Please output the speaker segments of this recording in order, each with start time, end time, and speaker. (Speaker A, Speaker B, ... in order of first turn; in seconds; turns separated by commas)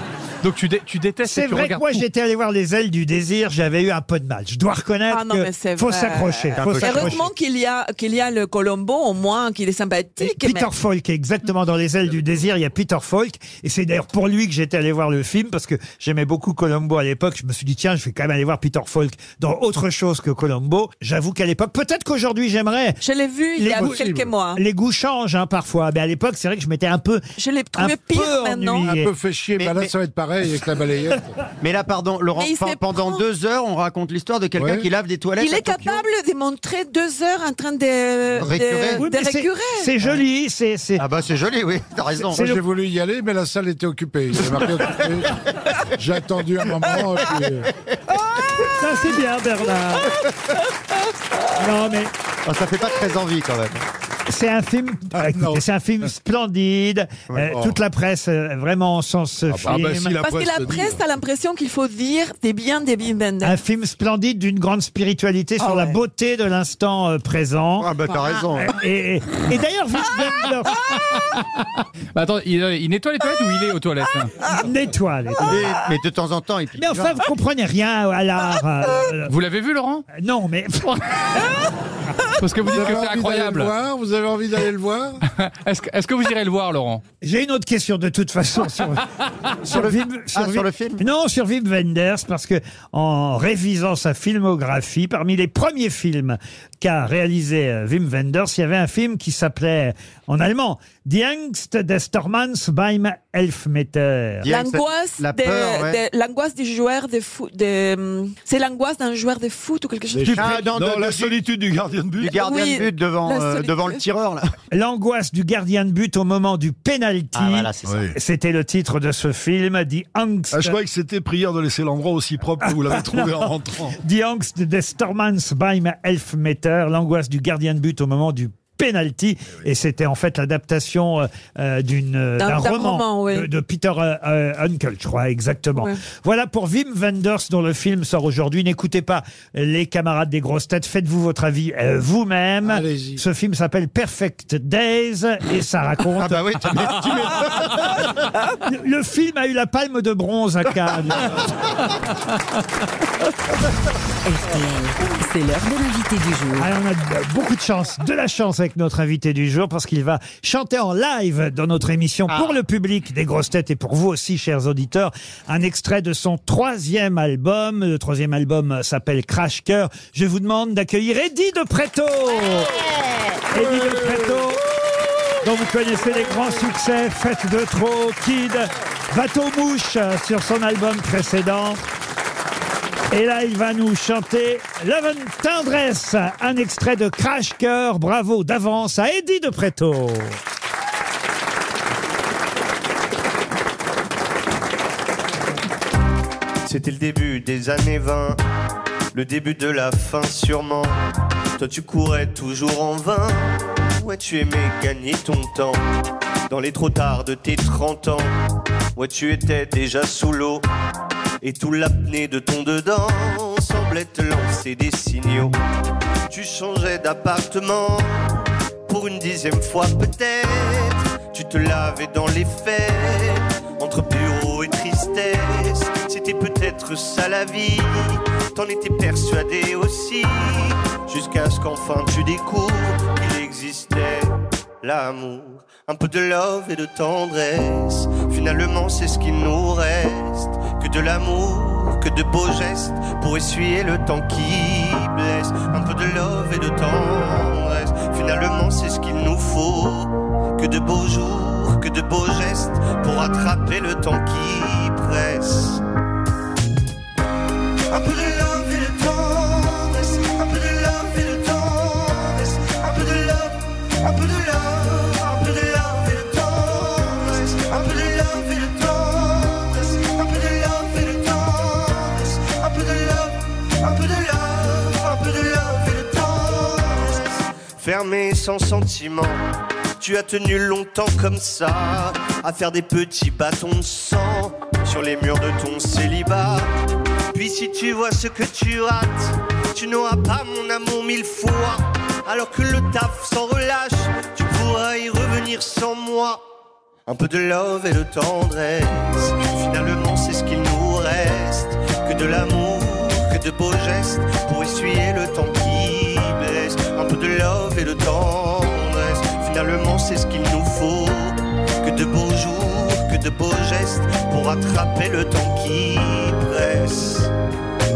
Speaker A: 0.4-2.0, Speaker B: 1.2-7.2, Speaker C: 5.1-10.7, Speaker D: 6.6-7.3, Speaker B: 10.2-23.0, Speaker C: 23.0-24.6, Speaker B: 23.6-27.2, Speaker E: 23.8-24.2, Speaker C: 27.4-28.9, Speaker B: 27.8-29.1, Speaker E: 28.9-31.3, Speaker D: 29.6-29.9, Speaker D: 31.6-36.0, Speaker C: 32.4-33.2, Speaker E: 34.6-34.9, Speaker C: 35.4-40.0, Speaker D: 38.4-39.0, Speaker B: 39.0-41.0, Speaker D: 41.0-42.4, Speaker B: 42.3-42.6, Speaker E: 42.3-45.3, Speaker E: 45.9-47.7, Speaker B: 48.6-50.2, Speaker B: 51.5-52.1, Speaker D: 52.4-53.8, Speaker B: 54.3-60.2, Speaker D: 57.3-57.6, Speaker F: 59.5-61.0, Speaker C: 60.2-63.6, Speaker B: 63.4-67.9, Speaker C: 65.6-66.0, Speaker D: 67.8-68.7, Speaker B: 68.5-70.9, Speaker A: 72.1-74.3, Speaker B: 74.5-75.7, Speaker D: 75.4-77.2, Speaker B: 76.8-79.3, Speaker A: 79.3-80.0, Speaker B: 80.1-81.6, Speaker A: 82.4-83.7, Speaker E: 82.6-85.2, Speaker A: 85.3-87.0, Speaker B: 87.2-89.0, Speaker B: 89.6-104.5, Speaker D: 89.7-91.0, Speaker D: 104.4-106.0, Speaker C: 104.4-110.4, Speaker F: 110.1-112.4, Speaker D: 110.3-111.4, Speaker D: 112.2-114.5, Speaker C: 112.3-114.0, Speaker B: 114.7-120.8, Speaker D: 117.3-118.1, Speaker F: 117.9-118.2, Speaker F: 120.5-124.0, Speaker B: 122.6-123.5, Speaker B: 124.0-146.4, Speaker C: 132.4-133.5, Speaker C: 135.8-136.0, Speaker E: 142.6-143.2, Speaker D: 146.2-148.1, Speaker B: 148.6-151.4, Speaker G: 154.2-156.7, Speaker B: 156.6-172.7, Speaker D: 162.3-162.5, Speaker B: 173.5-174.6, Speaker B: 175.4-181.8, Speaker B: 183.1-190.4, Speaker H: 196.6-198.4, Speaker H: 199.1-201.0, Speaker H: 201.6-205.8, Speaker H: 206.5-208.3, Speaker H: 208.9-210.6, Speaker H: 211.4-215.6, Speaker H: 216.3-255.8, Speaker H: 257.9-279.4, Speaker H: 280.0-286.7, Speaker H: 287.3-296.4, Speaker H: 297.1-317.3